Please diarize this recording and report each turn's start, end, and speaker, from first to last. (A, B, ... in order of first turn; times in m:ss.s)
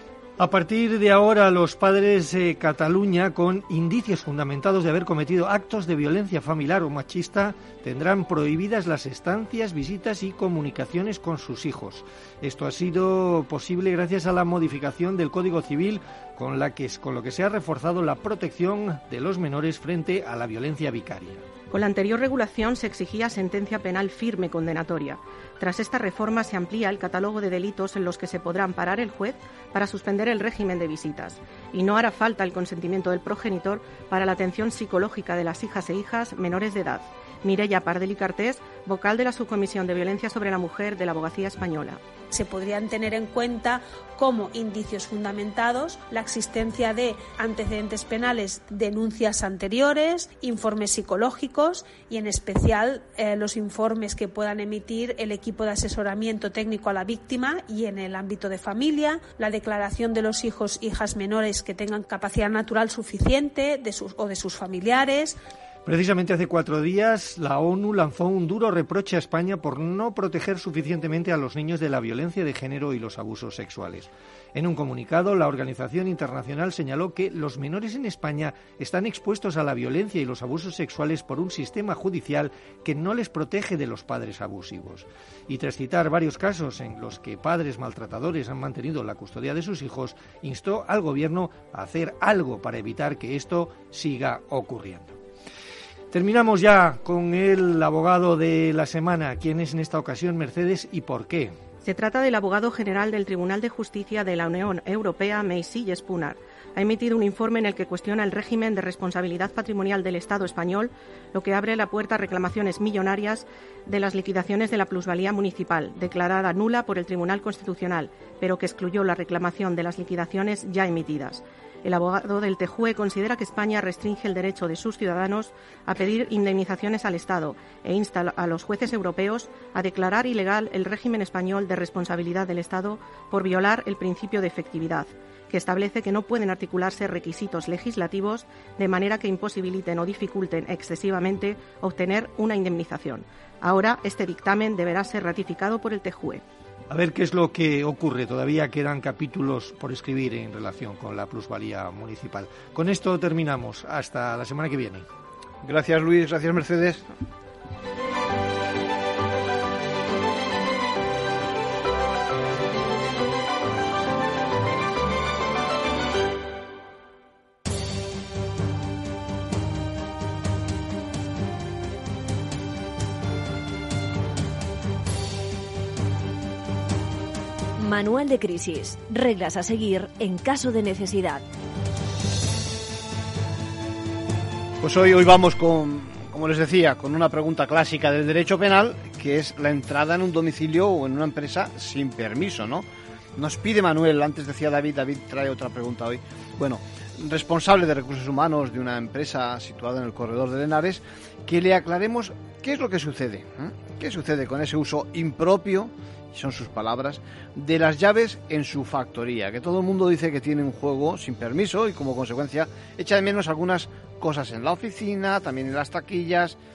0:00.4-0:21.4 A
0:21.7-0:42.0 B
0:42.3-1:05.4 C
1:05.8-1:35.2 A
1:36.1-1:41.6 A
1:41.8-2:26.4 B
2:26.9-2:35.0 A
2:35.6-2:37.0 D
2:57.8-3:01.4 E
3:04.8-3:36.6 D